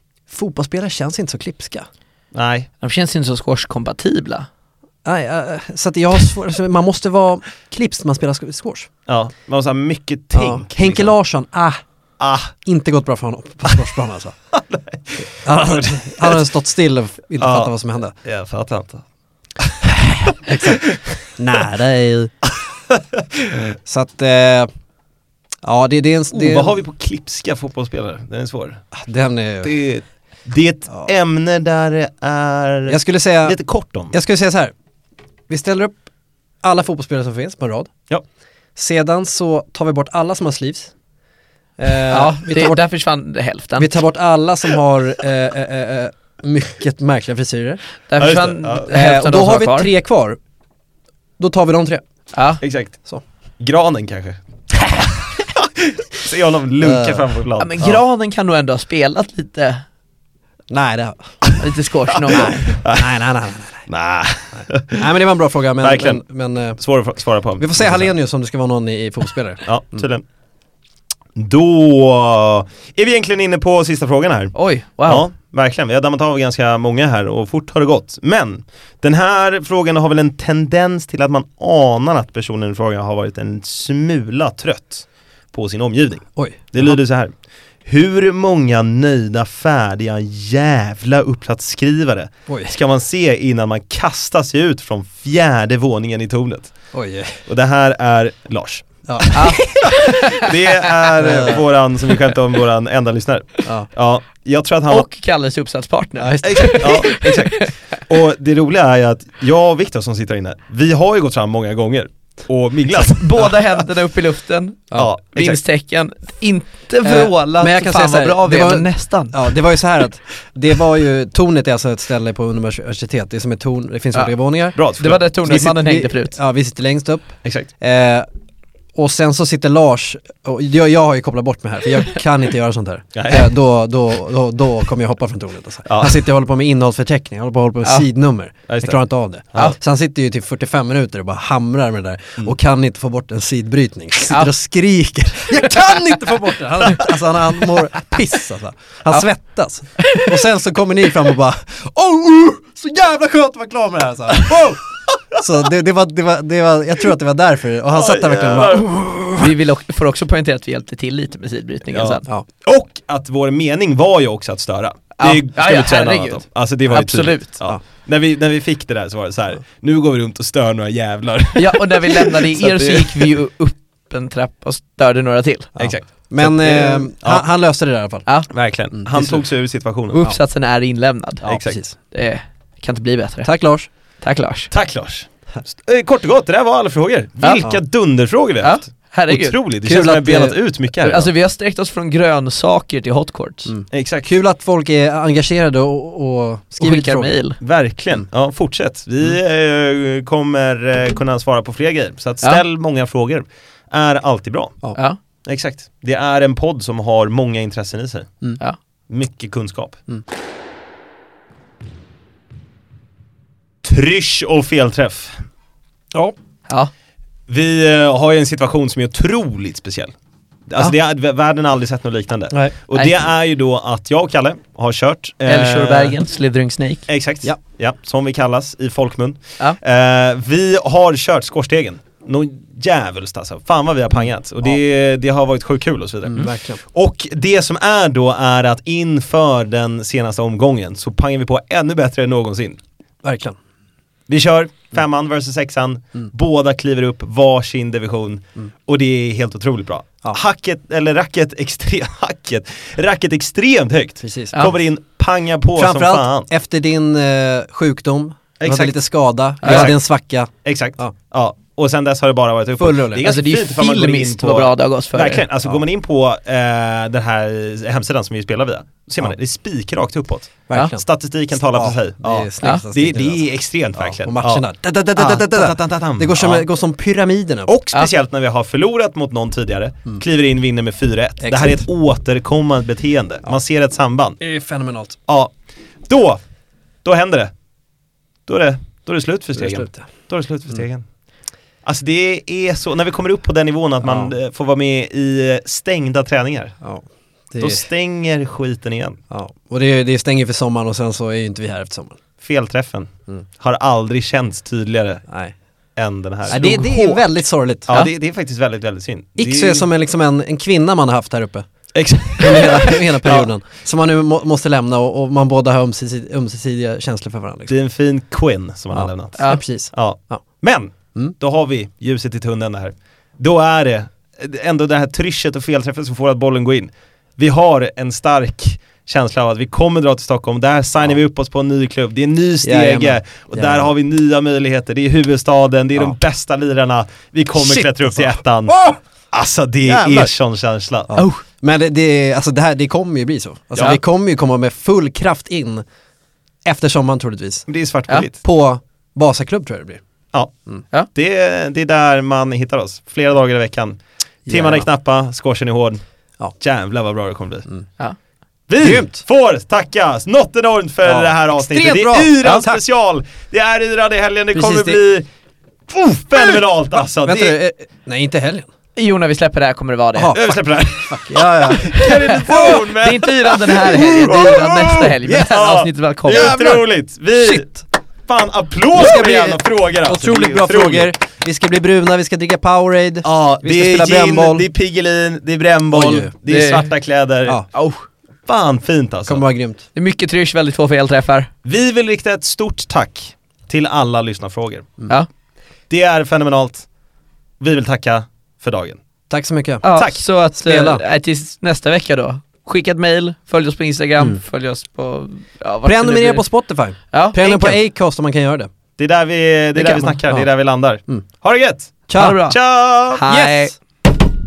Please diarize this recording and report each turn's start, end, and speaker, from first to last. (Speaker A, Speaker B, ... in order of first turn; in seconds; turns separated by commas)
Speaker A: 0.3-1.9, Speaker B: 2.3-2.7, Speaker C: 2.8-4.5, Speaker A: 5.0-8.9, Speaker B: 9.1-11.1, Speaker A: 10.3-11.8, Speaker B: 12.2-12.5, Speaker A: 12.6-14.3, Speaker B: 14.5-15.3, Speaker A: 15.3-18.1, Speaker B: 17.4-17.7, Speaker B: 18.2-19.0, Speaker B: 19.6-21.0, Speaker A: 20.3-22.3, Speaker B: 22.5-23.6, Speaker A: 23.5-24.7, Speaker A: 25.6-26.8, Speaker B: 26.3-28.8, Speaker A: 28.9-29.7, Speaker B: 29.6-34.1, Speaker A: 32.9-33.6, Speaker A: 34.1-34.7, Speaker A: 35.5-36.0, Speaker A: 36.6-37.9, Speaker A: 38.8-40.9, Speaker A: 41.8-42.8, Speaker C: 42.1-43.9, Speaker A: 43.8-47.8, Speaker C: 48.1-49.9, Speaker B: 48.2-48.9, Speaker A: 48.9-50.4, Speaker A: 51.4-52.0, Speaker C: 52.3-52.6, Speaker B: 52.6-53.0, Speaker B: 53.6-58.0, Speaker A: 56.8-57.3, Speaker C: 57.6-59.8, Speaker A: 60.7-61.4, Speaker C: 61.6-62.7, Speaker B: 62.2-63.2, Speaker A: 62.3-63.8, Speaker B: 63.9-65.1, Speaker A: 64.9-66.8, Speaker B: 65.8-66.2, Speaker B: 66.8-68.1, Speaker A: 67.6-69.6, Speaker B: 69.6-70.2, Speaker B: 71.3-74.5, Speaker C: 74.5-75.2, Speaker B: 75.0-87.3, Speaker A: 86.3-87.0, Speaker B: 87.8-96.8, Speaker A: 92.5-92.7, Speaker A: 96.9-97.4, Speaker B: 97.5-105.1, Speaker A: 99.1-99.9, Speaker C: 99.3-100.5, Speaker A: 101.1-101.6, Speaker C: 104.9-107.7, Speaker A: 106.2-107.2, Speaker B: 106.4-113.8, Speaker C: 112.9-119.4, Speaker B: 114.9-115.6, Speaker A: 117.0-124.8, Speaker C: 124.1-126.4, Speaker B: 124.8-125.2, Speaker A: 125.4-128.3, Speaker B: 127.4-127.7, Speaker A: 128.9-154.8, Speaker B: 133.1-133.5, Speaker B: 135.8-136.2, Speaker B: 138.7-139.0, Speaker C: 150.0-150.3, Speaker A: 155.3-159.5, Speaker B: 157.9-159.0, Speaker C: 159.4-162.3, Speaker B: 161.9-173.3, Speaker C: 165.2-167.5, Speaker C: 171.6-175.7, Speaker B: 175.8-177.4, Speaker A: 175.8-178.2, Speaker B: 178.5-180.2, Speaker A: 178.9-179.4, Speaker C: 180.1-183.5, Speaker B: 181.5-181.8, Speaker A: 181.5-181.9, Speaker A: 183.4-183.9, Speaker C: 184.2-184.7, Speaker B: 184.7-191.3, Speaker C: 188.6-189.6, Speaker A: 189.8-190.6, Speaker C: 191.0-193.7, Speaker A: 193.7-197.3, Speaker B: 193.9-194.3, Speaker C: 196.8-197.6, Speaker B: 197.6-204.8, Speaker B: 205.4-208.3, Speaker B: 209.1-210.0, Speaker B: 213.8-215.4, Speaker B: 217.5-220.1, Speaker B: 220.7-226.2, Speaker C: 225.5-227.1, Speaker B: 227.1-242.8, Speaker A: 236.2-236.8, Speaker A: 243.2-243.6, Speaker B: 244.3-256.5, Speaker A: 254.2-254.7, Speaker A: 255.8-261.1, Speaker B: 258.6-258.9, Speaker C: 259.6-259.9, Speaker B: 259.6-260.0, Speaker B: 260.6-274.6, Speaker A: 262.8-263.2, Speaker C: 263.2-265.4, Speaker A: 270.7-271.0, Speaker A: 271.6-277.7, Speaker B: 275.1-276.6, Speaker B: 277.7-284.4, Speaker A: 281.4-281.8, Speaker A: 284.4-285.2, Speaker B: 285.3-285.5, Speaker B: 286.1-286.4, Speaker B: 287.0-287.5, Speaker B: 288.5-291.0, Speaker A: 289.6-290.1, Speaker B: 291.8-296.7, Speaker A: 294.0-294.3, Speaker A: 296.8-297.8, Speaker B: 297.6-299.2, Speaker A: 299.3-302.2, Speaker B: 302.4-305.2, Speaker A: 305.3-305.5, Speaker B: 305.9-309.9, Speaker A: 306.5-307.9, Speaker A: 309.4-311.6, Speaker B: 311.9-313.5, Speaker A: 312.4-317.7, Speaker B: 317.7-341.1, Speaker A: 318.9-320.4, Speaker A: 332.6-333.9, Speaker A: 337.6-338.9, Speaker A: 339.9-340.3, Speaker A: 341.1-345.8, Speaker C: 341.1-341.4, Speaker A: 346.6-347.7, Speaker B: 347.7-348.4, Speaker A: 348.3-350.0, Speaker B: 351.1-356.0, Speaker A: 354.4-354.9, Speaker B: 356.6-357.7, Speaker B: 358.7-365.2, Speaker A: 358.8-359.2, Speaker A: 361.0-362.8, Speaker A: 364.5-365.0, Speaker B: 365.9-367.5, Speaker A: 366.4-366.6, Speaker A: 367.2-368.7, Speaker C: 368.9-370.4, Speaker A: 370.1-372.8, Speaker B: 370.3-381.1, Speaker C: 371.9-376.6, Speaker A: 376.3-376.8, Speaker A: 378.9-384.6, Speaker B: 383.2-387.8, Speaker A: 385.9-386.3, Speaker C: 386.4-386.9, Speaker B: 388.5-389.4, Speaker A: 389.2-389.8, Speaker C: 389.9-391.5, Speaker B: 391.6-394.9, Speaker B: 395.9-396.9, Speaker B: 397.6-399.0, Speaker A: 399.3-399.9, Speaker C: 399.8-406.4, Speaker B: 399.9-400.2, Speaker A: 400.5-401.0, Speaker A: 405.8-408.7, Speaker C: 407.1-407.8, Speaker B: 409.0-413.3, Speaker C: 409.8-410.2, Speaker A: 412.1-412.4, Speaker C: 412.1-412.6, Speaker C: 413.1-413.7, Speaker A: 413.3-413.7